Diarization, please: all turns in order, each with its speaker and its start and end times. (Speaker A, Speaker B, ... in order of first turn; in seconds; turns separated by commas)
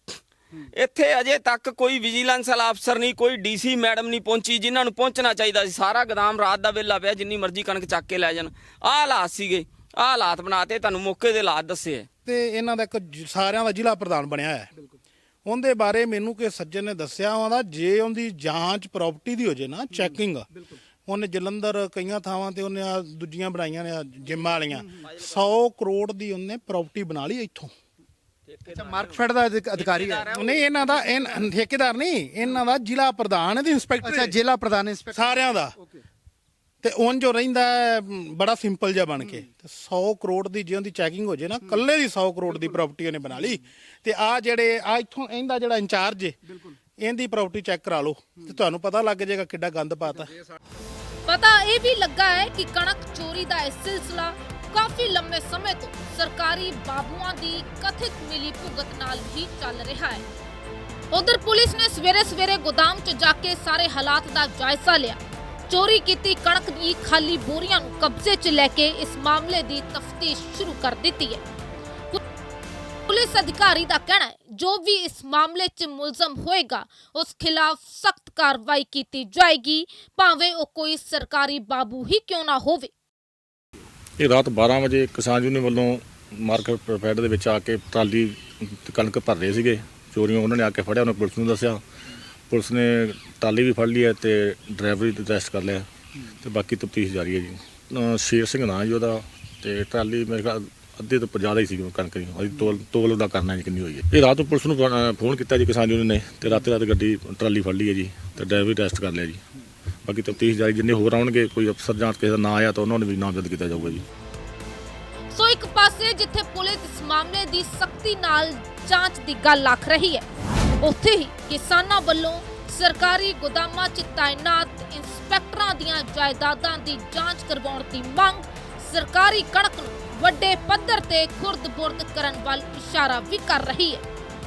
Speaker A: 0.5-12.1, Speaker B: 12.3-14.7, Speaker B: 15.4-20.5, Speaker B: 21.1-27.7, Speaker A: 25.0-25.3, Speaker A: 28.5-29.2, Speaker C: 28.7-30.3, Speaker A: 29.8-30.8, Speaker B: 30.3-34.4, Speaker C: 34.0-36.0, Speaker B: 35.1-35.7, Speaker B: 36.8-50.3, Speaker D: 51.3-60.2, Speaker D: 61.1-71.4, Speaker D: 73.1-82.9, Speaker E: 84.2-91.8, Speaker E: 92.5-109.4, Speaker E: 110.0-114.0, Speaker D: 115.3-120.2, Speaker D: 120.8-134.0